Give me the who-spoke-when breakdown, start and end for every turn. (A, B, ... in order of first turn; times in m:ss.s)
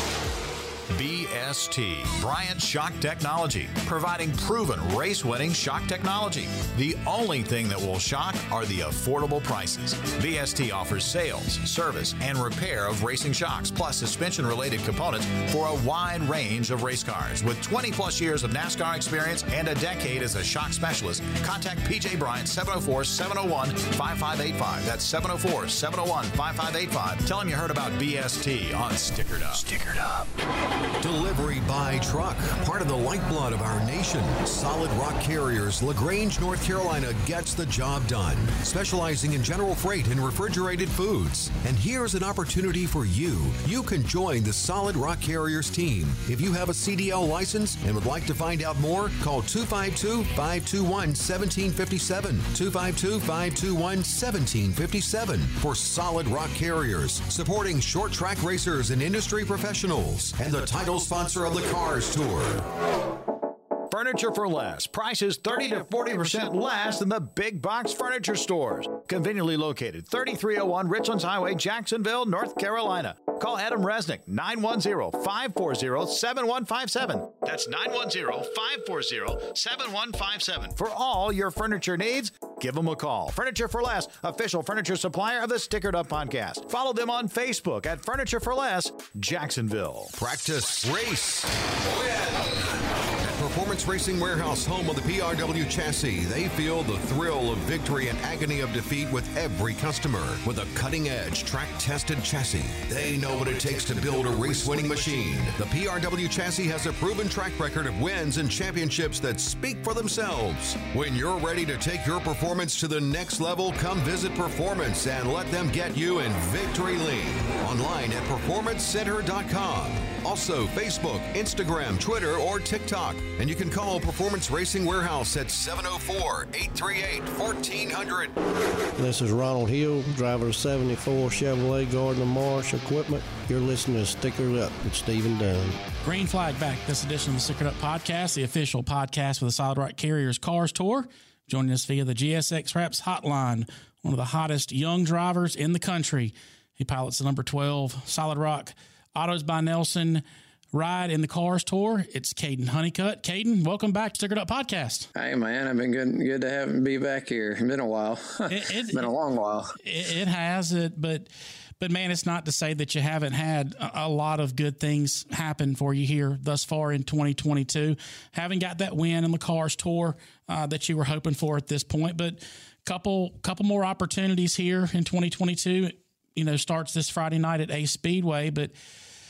0:00.9-0:30.3 A
0:31.0-1:02.7 B
1:03.9-1:30.1 A
1:30.2-1:32.6 B
1:33.4-2:08.4 B
2:09.0-2:15.8 C
2:16.0-2:35.1 D
2:35.2-2:39.8 E
2:38.5-2:39.0 D
2:39.8-2:41.3 D
2:41.8-2:58.7 D